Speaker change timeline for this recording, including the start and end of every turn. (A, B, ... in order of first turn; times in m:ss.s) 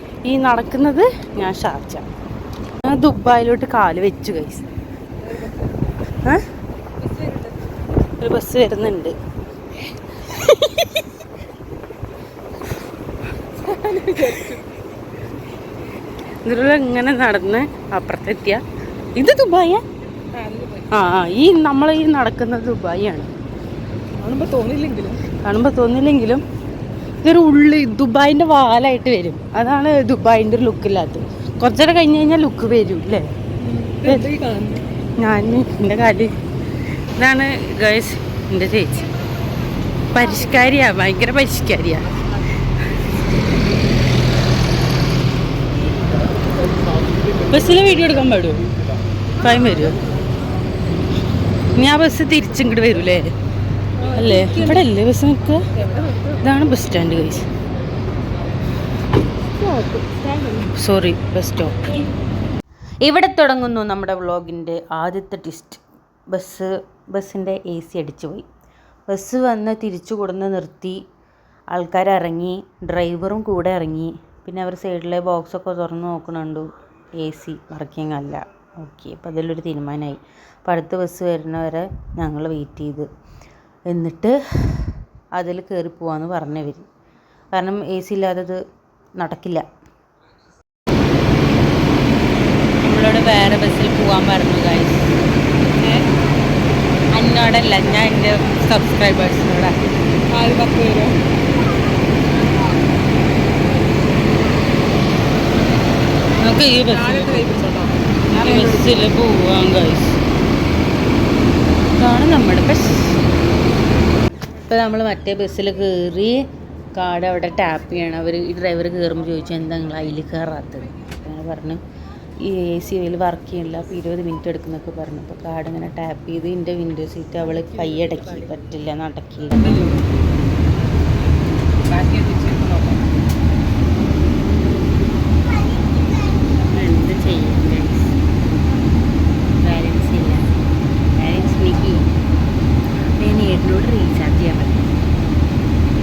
0:00.2-0:02.0 A
0:02.8-0:04.6 A
0:05.3-0:05.6 B
0:07.0-0:07.5 B
0:08.2-0:09.1 A
0:13.6-0:14.6 B
0:16.4-0:18.6 A
0:19.2-0:19.8 A
0:20.3-0:21.2 B
0:20.9-0:23.3 A
0:24.2-0:25.4 B
0:25.4-0:26.4 A
0:27.2-0:33.2 A
0:33.6-0:34.9 B
0:35.2-0:36.3 A
0:37.2-0:39.0 A
0:40.1-0:42.1 A
0:47.5-0:48.6 A
0:49.4-0:50.0 A
0:51.7-0:53.2 A
0:54.0-0:54.9 B
0:54.1-0:55.6 A
0:55.7-0:56.5 B
0:56.4-0:57.4 A
0:59.5-1:00.7 B
1:00.8-1:01.8 A
1:03.0-1:08.4 A
1:09.1-1:11.0 A
1:11.7-1:23.1 A
1:23.9-1:26.9 A
1:27.5-1:28.6 A
1:29.2-1:29.6 A
1:32.8-1:35.1 A
1:35.8-1:36.1 B
1:37.1-1:39.7 A
1:40.3-1:41.2 B
1:46.4-1:47.4 A
1:46.8-1:49.1 B
1:48.3-1:50.2 A
1:52.0-1:53.2 A
1:54.7-1:56.4 A
1:56.9-2:01.8 A
2:02.4-2:09.8 A
2:09.6-2:10.0 B
2:11.9-2:13.1 B
2:16.7-2:18.2 A
2:19.6-2:20.5 A
2:21.2-2:22.1 A
2:23.2-2:24.9 A